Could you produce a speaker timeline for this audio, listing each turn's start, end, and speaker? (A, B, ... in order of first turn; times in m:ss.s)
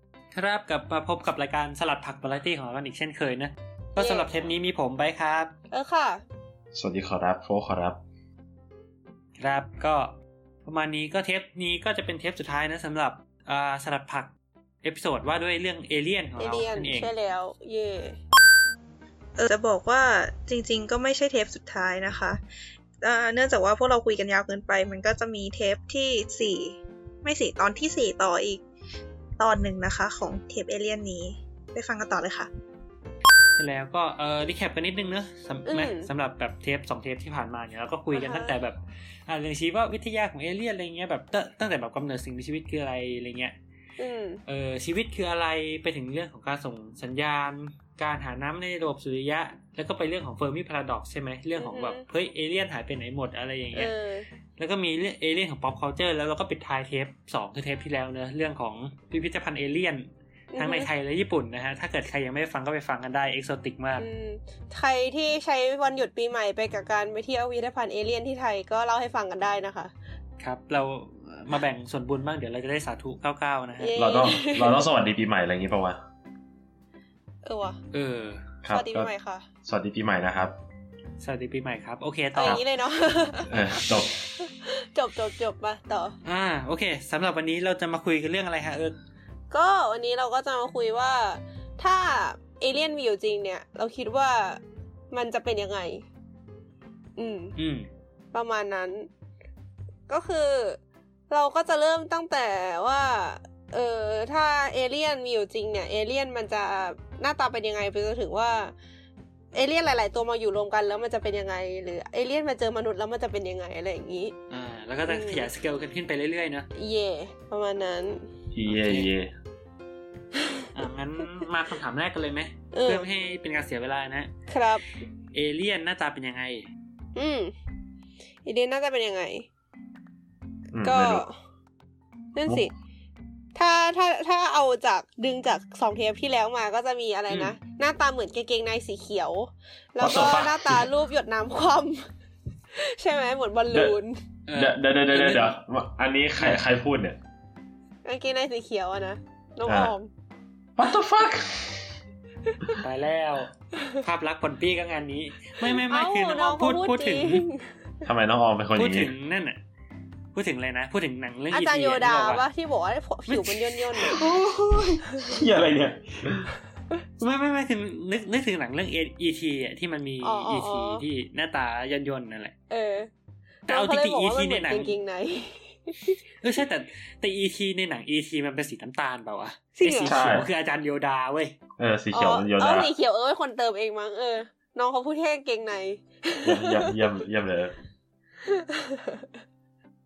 0:00.3-0:05.5 A
0:04.0-0:04.3 B
0:05.7-0:06.2 B
0:06.7-0:08.0 C
0:09.4-0:10.2 A
0:10.7-0:14.3 A
0:14.8-0:17.1 A
0:16.4-0:18.2 B
0:19.4-0:22.4 D
0:23.0-0:28.6 D
0:29.4-0:32.5 D
0:33.6-0:43.6 A
0:35.7-0:36.1 B
0:38.1-0:38.6 B
0:44.0-0:44.4 B
0:44.5-0:53.9 A
0:51.6-0:52.0 B
0:53.7-0:54.3 B
0:54.6-1:04.1 A
1:00.5-1:00.9 B
1:04.0-1:09.9 B
1:10.4-1:14.0 A
1:13.8-1:14.8 B
1:14.0-1:16.0 C
1:17.4-1:17.8 B
1:17.9-1:18.4 A
1:18.6-1:19.1 C
1:18.7-1:19.5 B
1:19.6-1:20.6 C
1:21.2-1:22.6 A
1:22.4-1:26.2 B
1:23.4-1:24.1 C
1:26.2-1:29.0 A
1:29.5-1:36.0 B
1:37.2-1:37.6 B
1:37.6-1:37.9 A
1:38.3-1:39.1 B
1:40.1-1:40.8 B
1:41.3-1:48.7 B
1:49.5-1:54.4 B
1:54.5-1:56.7 A
1:55.1-1:55.5 B
1:56.8-1:58.3 B
1:58.5-1:59.3 C
1:58.7-1:59.1 A
2:00.4-2:00.7 B
2:00.7-2:04.3 A
2:02.7-2:03.1 B
2:04.5-2:04.8 B
2:05.3-2:06.7 A
2:07.2-2:07.5 B
2:08.4-2:09.5 B
2:10.7-2:11.2 C
2:10.8-2:11.3 B
2:12.4-2:12.7 B
2:13.6-2:22.1 B
2:17.3-2:17.6 A
2:20.0-2:20.9 C
2:22.7-2:24.2 B
2:24.5-2:25.6 A
2:24.6-2:27.2 C
2:26.4-2:26.6 A
2:28.0-2:30.1 B
2:29.6-2:29.9 C
2:30.8-2:32.0 C
2:32.8-2:37.5 A
2:35.6-2:37.7 B
2:38.0-2:39.1 C
2:38.8-2:39.6 A
2:40.3-2:42.4 A
2:41.5-2:44.3 B
2:43.3-2:43.6 A
2:44.0-2:46.5 C
2:45.2-2:45.4 B
2:47.2-2:52.6 A
2:50.2-2:51.0 B
2:52.7-2:53.1 B
2:53.7-2:56.2 B
2:53.7-2:54.9 A
2:56.4-3:01.6 A
2:59.8-3:00.2 B
3:00.0-3:00.4 C
3:01.8-3:02.9 C
3:02.1-3:07.0 B
3:06.4-3:07.8 C
3:08.4-3:09.3 B